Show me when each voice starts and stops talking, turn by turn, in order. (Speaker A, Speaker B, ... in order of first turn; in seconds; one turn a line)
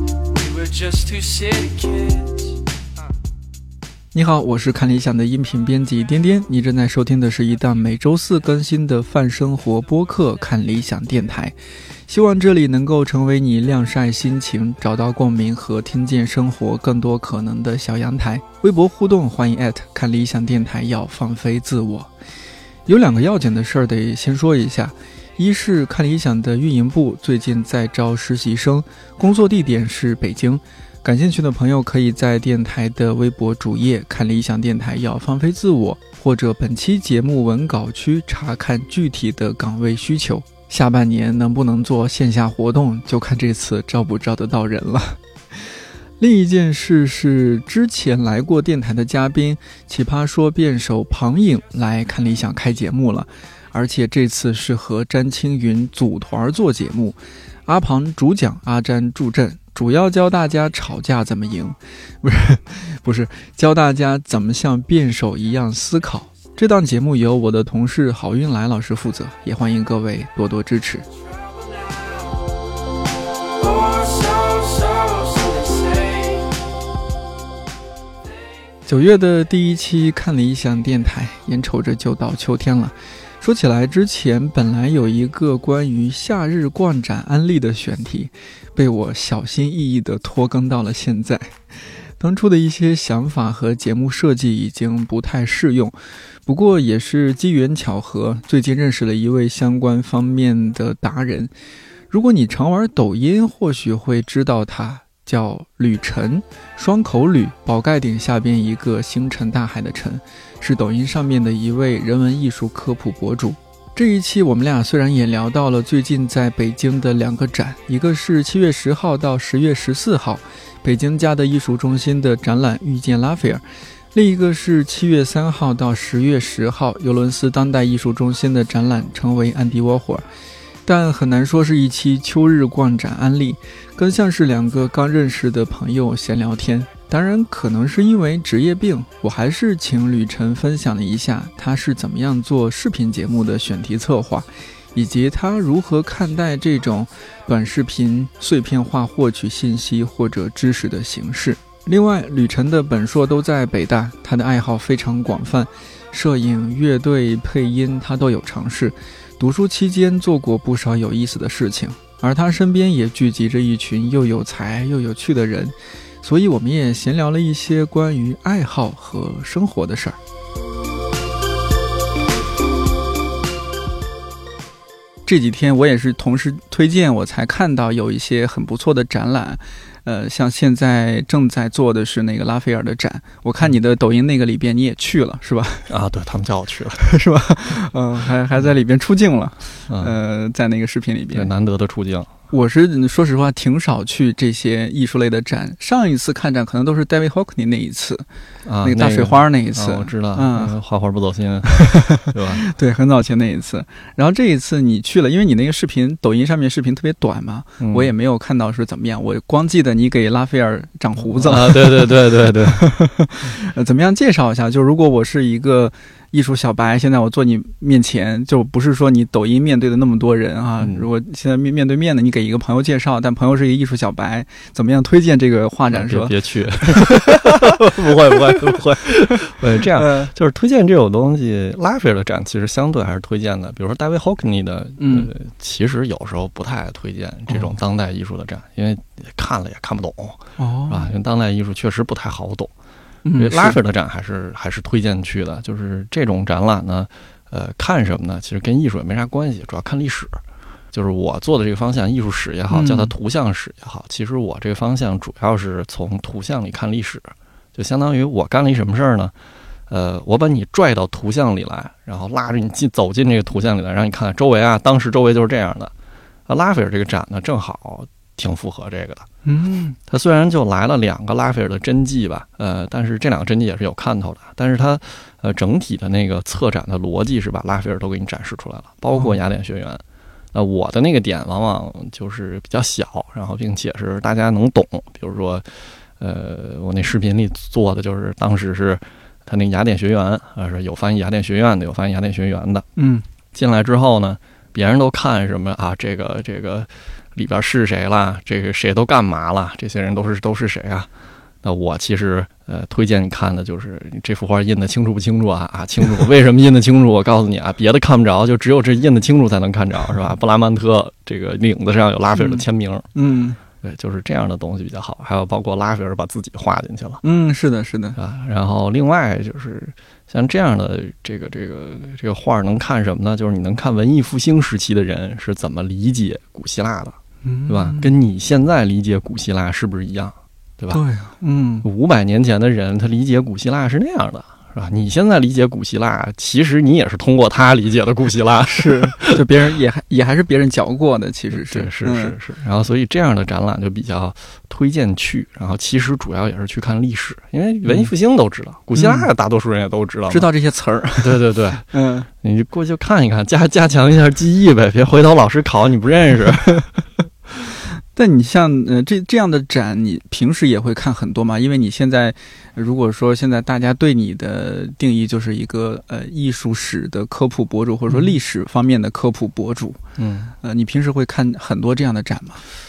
Speaker A: 0.3-2.6
Speaker B: 4.1-11.6
Speaker B: 12.1-22.1
Speaker B: 22.9-45.2
Speaker B: 46.2-71.0
Speaker A: 73.6-76.5
Speaker B: 78.9-91.5
Speaker B: 92.2-101.5
Speaker B: 102.1-130.2
Speaker B: 130.9-170.2
Speaker B: 175.3-185.9
Speaker C: 185.9-187.0
Speaker B: 187.0-191.5
Speaker C: 189.9-190.2
Speaker C: 191.3-192.3
Speaker B: 192.5-198.2
Speaker C: 198.7-202.6
Speaker B: 198.8-200.7
Speaker B: 201.7-226.3
Speaker C: 207.8-208.1
Speaker C: 211.4-212.8
Speaker C: 220.8-221.1
Speaker C: 225.9-242.7
Speaker B: 227.0-227.7
Speaker B: 229.9-230.3
Speaker B: 235.0-235.3
Speaker B: 240.6-241.1
Speaker B: 243.2-243.8
Speaker C: 243.3-250.4
Speaker C: 250.9-259.3
Speaker B: 252.7-253.1
Speaker C: 259.9-265.9
Speaker C: 266.5-269.3
Speaker B: 269.4-270.0
Speaker C: 270.1-280.0
Speaker C: 280.5-292.9
Speaker B: 293.0-293.2
Speaker C: 293.5-301.1
Speaker C: 301.6-313.1
Speaker B: 312.4-312.6
Speaker B: 313.1-313.6
Speaker C: 313.8-317.2
Speaker B: 317.2-318.2
Speaker C: 318.2-331.0
Speaker B: 327.4-328.1
Speaker B: 330.9-331.9
Speaker C: 331.8-339.4
Speaker B: 338.7-342.4
Speaker C: 341.5-350.5
Speaker B: 348.9-349.3
Speaker B: 350.3-352.3
Speaker C: 351.2-357.0
Speaker B: 358.1-370.0
Speaker C: 370.2-370.5
Speaker B: 370.6-372.6